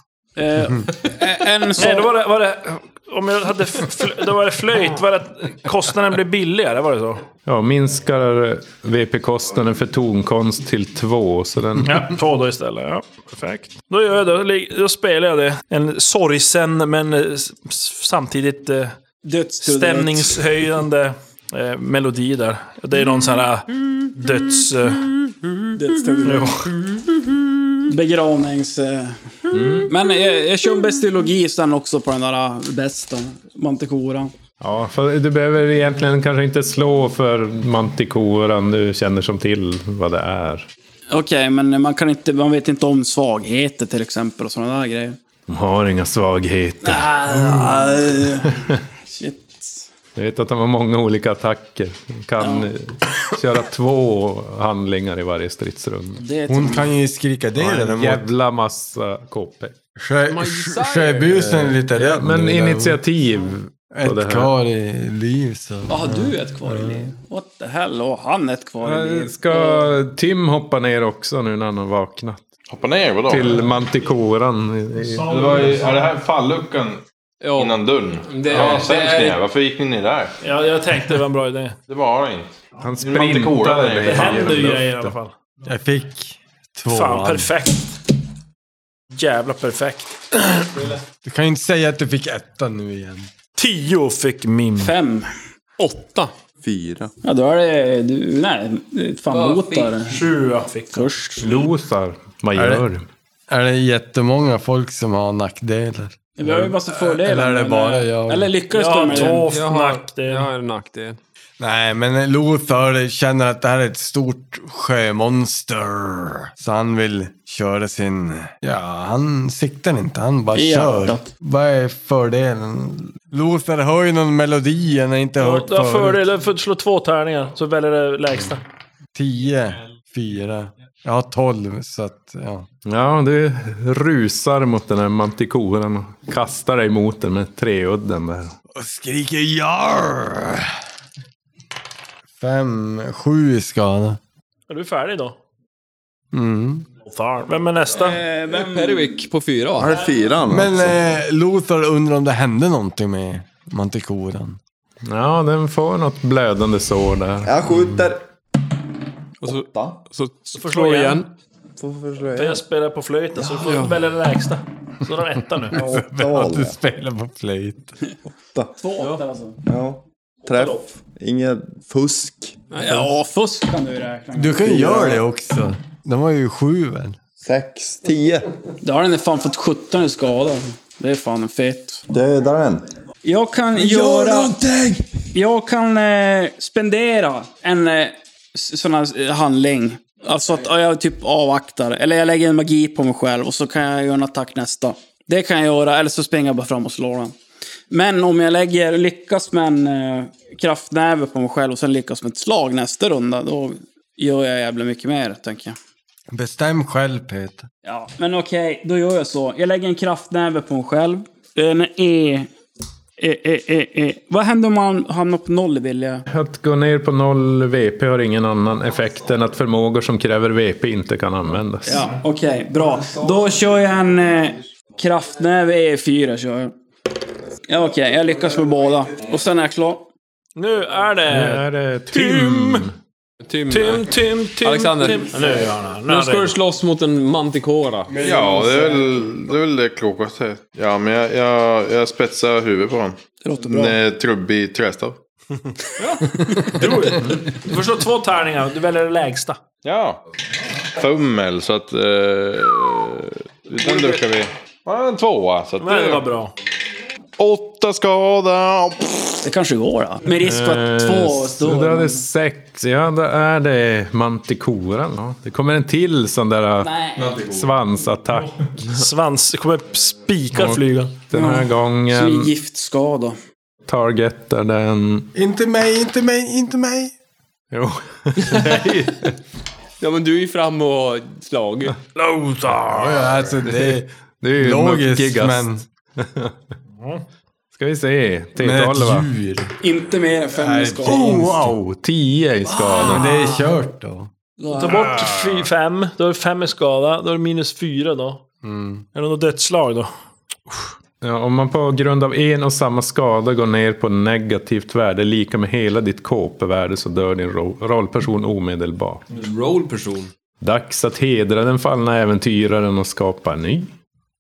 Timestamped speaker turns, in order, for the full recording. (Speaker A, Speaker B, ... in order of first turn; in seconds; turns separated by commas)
Speaker A: 0.4-2.1, Speaker B: 1.8-7.2, Speaker C: 7.5-12.1, Speaker B: 11.8-19.0, Speaker A: 19.2-20.4, Speaker B: 19.6-25.2, Speaker A: 25.8-26.5, Speaker B: 26.2-26.8, Speaker A: 27.9-29.2, Speaker C: 29.5-29.9, Speaker A: 29.9-34.3, Speaker C: 34.6-40.7, Speaker A: 41.1-45.2, Speaker C: 45.5-48.6, Speaker A: 46.8-49.9, Speaker C: 50.2-56.2, Speaker A: 52.4-52.7, Speaker A: 56.2-56.9, Speaker D: 56.5-58.3, Speaker C: 57.6-59.8, Speaker D: 60.0-63.0, Speaker E: 60.3-61.5, Speaker C: 62.0-64.5, Speaker D: 63.9-67.1, Speaker A: 65.9-69.8, Speaker C: 68.8-72.5, Speaker F: 72.7-73.7, Speaker C: 73.3-75.3, Speaker B: 75.1-76.0, Speaker F: 75.2-77.0, Speaker E: 77.4-79.4, Speaker F: 77.6-80.3, Speaker B: 78.6-78.8, Speaker B: 80.4-81.8, Speaker F: 81.9-84.8, Speaker C: 82.8-85.2, Speaker B: 84.0-85.3, Speaker D: 85.7-87.5, Speaker B: 86.9-87.9, Speaker B: 89.1-90.4, Speaker D: 90.6-93.3, Speaker B: 93.6-94.9, Speaker A: 94.8-95.3, Speaker E: 95.8-96.3, Speaker G: 96.6-97.1, Speaker A: 97.2-100.2, Speaker E: 99.3-100.0, Speaker B: 100.0-101.1, Speaker A: 100.9-101.7, Speaker C: 101.4-103.1, Speaker D: 102.5-102.9, Speaker D: 103.5-108.5, Speaker A: 106.4-109.5, Speaker B: 108.7-110.5, Speaker E: 109.5-111.2, Speaker D: 111.6-126.2, Speaker A: 120.5-121.3, Speaker B: 125.4-128.6, Speaker D: 129.2-132.7, Speaker C: 132.8-138.5, Speaker D: 138.8-140.7, Speaker D: 142.4-144.2, Speaker B: 144.7-145.4, Speaker D: 146.3-146.9, Speaker B: 147.0-148.2, Speaker A: 147.9-149.2, Speaker E: 148.5-149.9, Speaker G: 149.8-151.0, Speaker D: 150.5-154.6, Speaker C: 155.1-157.5, Speaker G: 157.4-158.2, Speaker E: 159.4-161.3, Speaker G: 159.4-160.0, Speaker B: 160.5-161.3, Speaker G: 161.8-162.6, Speaker B: 162.3-165.8, Speaker G: 163.4-163.8, Speaker E: 163.6-163.9, Speaker D: 165.7-167.9, Speaker G: 165.7-166.8, Speaker A: 168.8-169.6, Speaker G: 169.6-172.6, Speaker B: 170.4-170.8, Speaker E: 172.7-173.1, Speaker A: 172.8-175.2, Speaker D: 174.4-177.2, Speaker G: 177.4-178.5, Speaker A: 178.8-182.0, Speaker G: 182.1-182.9, Speaker A: 183.2-184.6, Speaker G: 183.7-185.1, Speaker A: 185.3-197.3, Speaker A: 197.9-205.8, Speaker D: 206.3-207.7, Speaker A: 207.9-212.5, Speaker A: 213.2-216.2, Speaker C: 216.3-222.1, Speaker A: 221.8-226.7, Speaker A: 227.7-230.1, Speaker B: 230.6-232.9, Speaker C: 231.3-232.9, Speaker E: 233.4-235.5, Speaker B: 233.7-236.6, Speaker E: 236.1-238.2, Speaker F: 238.2-245.2, Speaker D: 238.3-238.8, Speaker A: 243.4-244.0, Speaker E: 246.0-246.3, Speaker B: 246.6-249.6, Speaker F: 249.8-250.2, Speaker F: 250.9-256.3, Speaker B: 255.8-256.5, Speaker F: 257.4-259.4, Speaker A: 259.4-262.2, Speaker C: 260.4-268.6, Speaker A: 266.8-267.3, Speaker F: 267.2-267.8, Speaker B: 268.8-271.1, Speaker C: 270.5-272.5, Speaker A: 271.3-273.4, Speaker C: 273.9-275.3, Speaker D: 275.4-277.1, Speaker C: 277.7-279.4, Speaker E: 280.0-282.0, Speaker B: 282.1-283.5, Speaker D: 282.8-285.8, Speaker C: 284.4-286.6, Speaker B: 287.0-287.2, Speaker C: 287.8-289.3, Speaker D: 288.6-289.7, Speaker A: 289.8-291.5, Speaker D: 290.5-291.7, Speaker C: 291.1-293.2, Speaker A: 292.7-293.7, Speaker D: 293.0-294.3, Speaker A: 294.6-295.1, Speaker B: 294.8-298.4, Speaker C: 294.9-295.6, Speaker D: 298.6-299.1, Speaker B: 299.1-300.1, Speaker C: 301.2-309.2, Speaker E: 309.3-310.3, Speaker C: 310.6-313.9